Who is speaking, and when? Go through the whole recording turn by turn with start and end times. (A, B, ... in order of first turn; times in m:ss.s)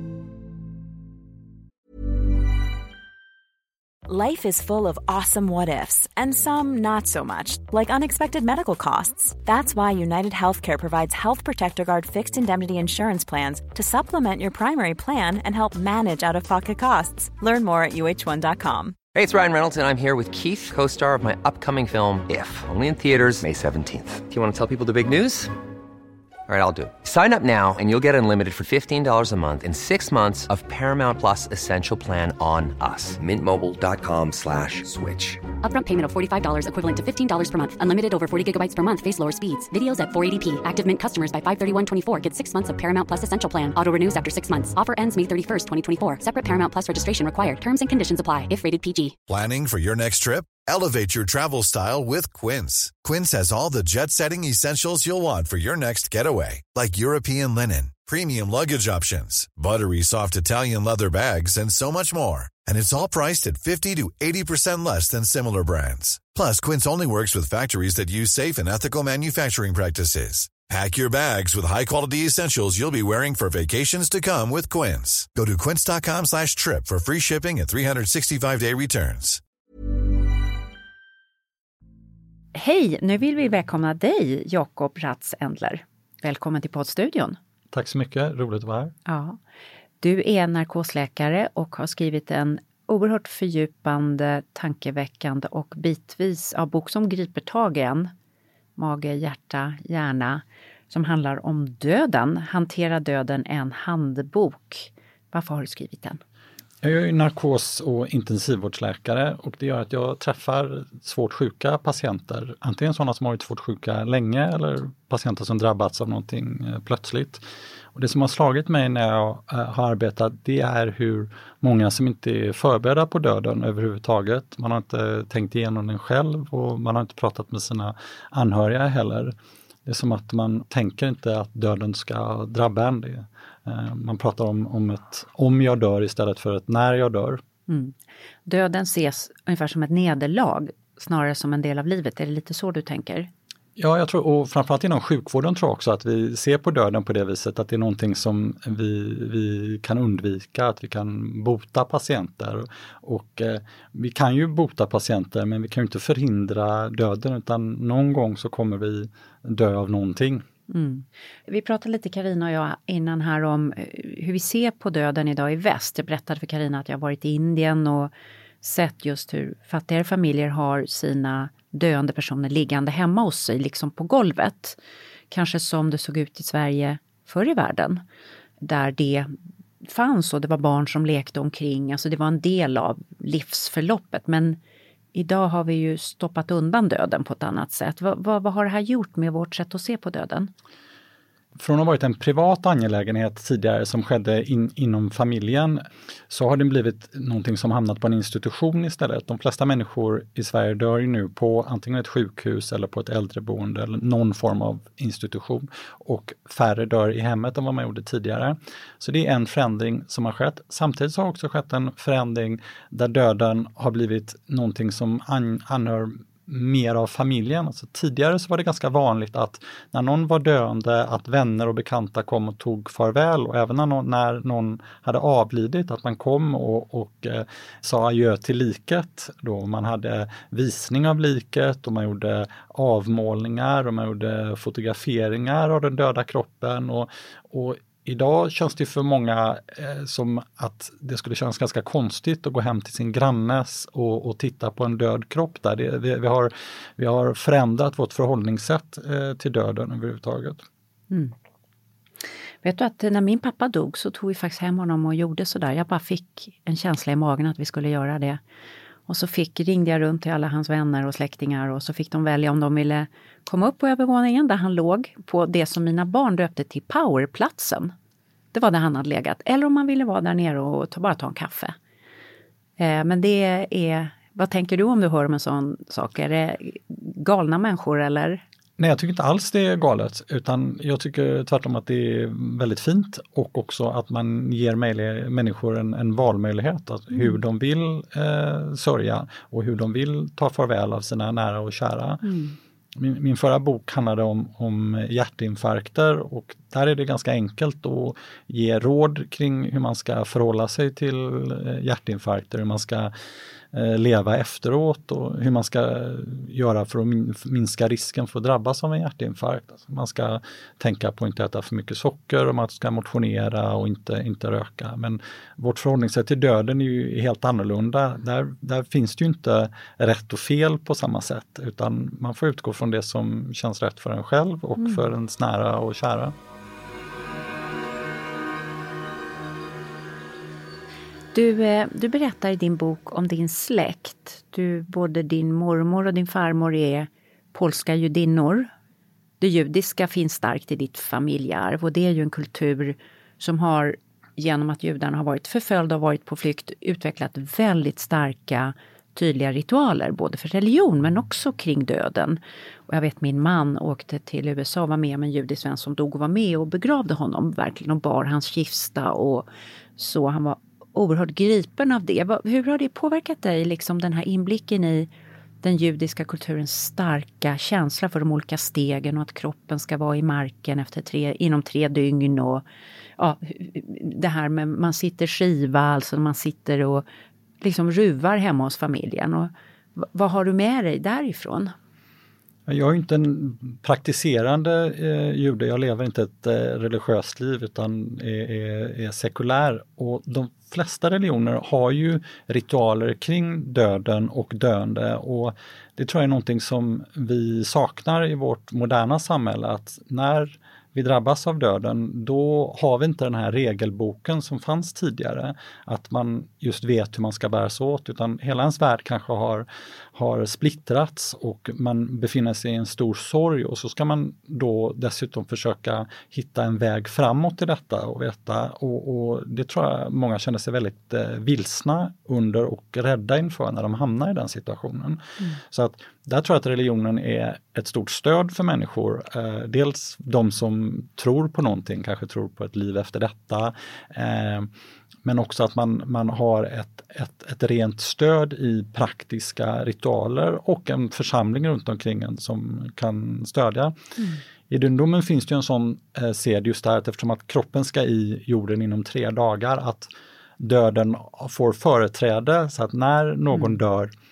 0:04.1-0:19.0 A
0:19.1-0:25.5 B
0:26.5-0:35.4 B
0:35.6-0:49.1 C
0:49.3-1:19.4 D
1:22.5-1:27.4 E
1:27.7-1:28.9 F
1:29.1-1:29.4 E
1:30.0-1:38.1 E
1:38.8-1:46.2 E
1:46.8-2:09.3 F
2:09.8-2:17.4 F
2:17.7-2:17.9 E
2:18.4-2:23.3 E
2:23.8-2:40.4 F
2:40.7-2:54.8 E
2:55.3-2:58.0 E
2:58.6-3:04.6 E
3:05.1-3:10.5 E
3:11.6-4:10.6 F
4:12.6-4:18.4 E
4:19.1-4:27.9 E
4:28.5-4:31.7 E
4:32.8-4:38.4 E
4:38.8-4:52.3 F
4:52.2-4:52.6 E
4:53.0-5:03.1 F
5:03.7-5:26.3 F
5:24.8-5:25.1 E
5:31.3-5:38.7 E
5:39.4-6:05.1 E
6:05.6-6:12.6 E
6:13.2-6:17.0 E
6:17.6-6:21.7 E
6:22.7-7:14.7 F
7:15.2-7:24.0 F
7:24.7-7:34.1 F
7:33.5-7:33.8 E